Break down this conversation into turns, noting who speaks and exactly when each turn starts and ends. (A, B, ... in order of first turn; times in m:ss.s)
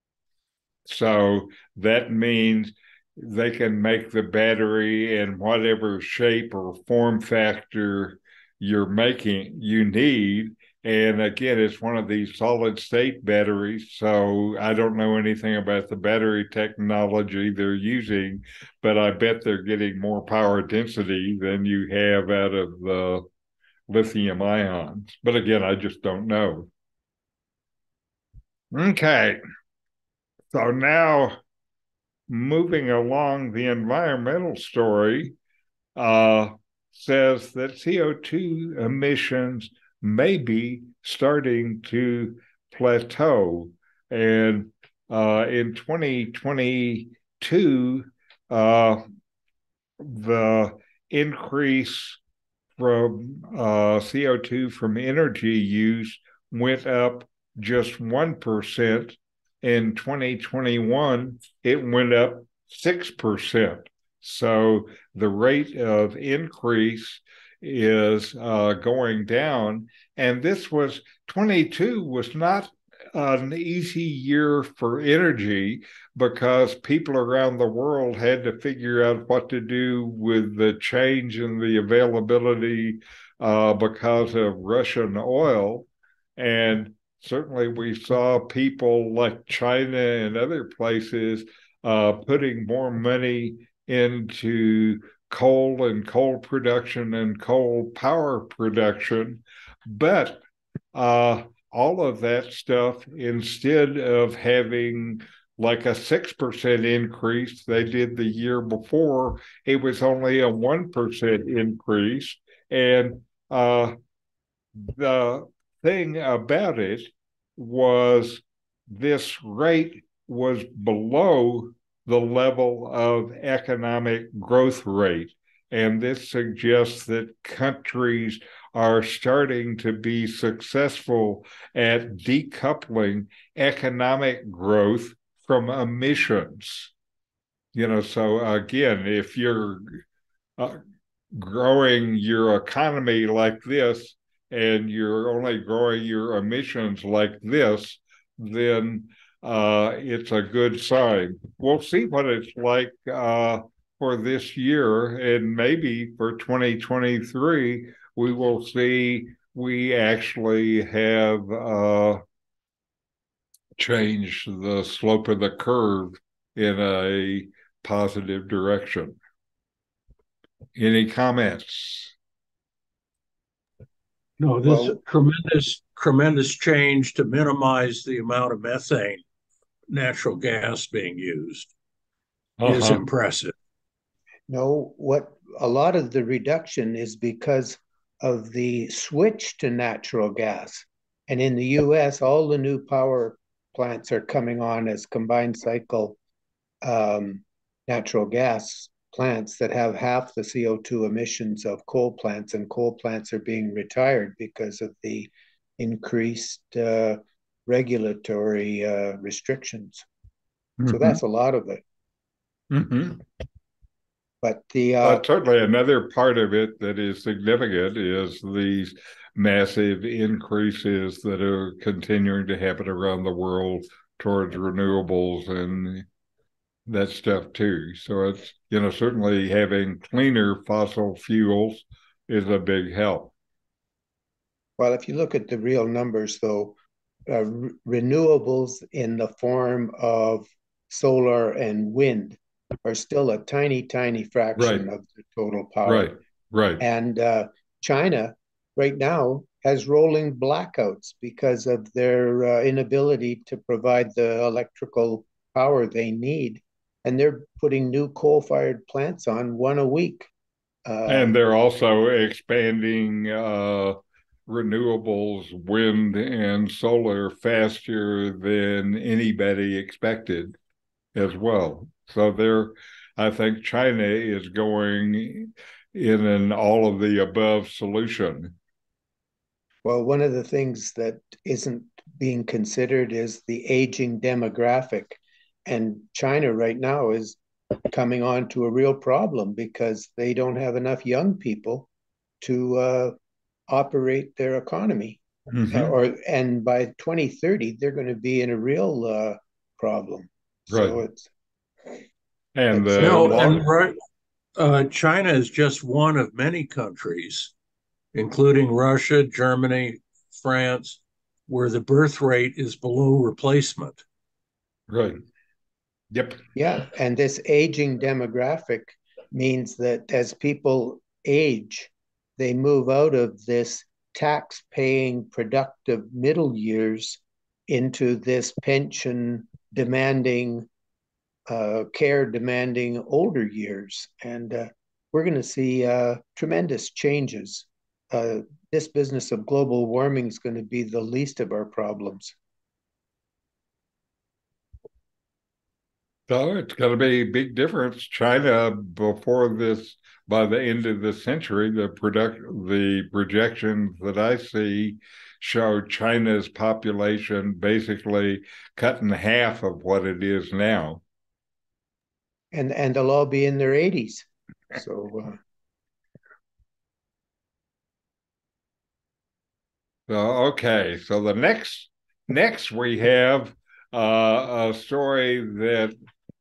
0:00.9-0:23.3 A
0:23.9-0:26.7 A
0:28.7-0:29.4 A
0:30.5-0:31.4 A
0:32.3-0:35.4 A
0:36.0-0:49.0 A
0:50.0-0:52.2 A
0:52.8-1:40.4 A
1:40.9-1:54.0 A
1:54.8-2:16.9 A
2:17.7-2:20.0 A
2:21.3-2:42.2 A
2:43.8-2:49.2 A
2:50.8-2:52.2 A
2:54.4-2:59.2 B
2:54.6-2:55.0 C
2:59.9-3:01.7 B
3:02.6-3:03.0 A
3:02.7-3:03.5 B
3:04.5-3:16.2 C
3:16.8-3:30.1 C
3:30.8-3:31.2 A
3:30.9-3:31.8 C
3:32.7-3:33.2 A
3:34.4-3:35.2 C
3:35.0-3:46.1 A
3:46.9-3:53.3 A
3:54.8-3:56.8 C
3:57.3-4:06.1 C
4:04.6-4:04.9 A
4:05.8-4:06.8 A
4:06.8-4:20.3 C
4:20.8-4:21.3 C
4:21.1-4:30.6 A
4:31.2-4:38.5 A
4:39.8-4:51.9 C
4:52.4-4:53.2 C
4:53.7-5:01.3 C
4:55.5-4:55.9 A
5:00.7-5:01.0 A
5:02.6-5:03.6 A
5:02.7-5:03.6 C
5:03.0-5:04.0 B
5:04.6-5:07.5 B
5:08.1-5:14.0 B
5:14.9-5:15.2 A
5:16.1-5:16.4 A
5:16.6-5:30.7 C
5:31.5-5:42.4 C
5:46.3-6:01.0 A
6:02.5-6:05.4 C
6:10.1-6:16.0 A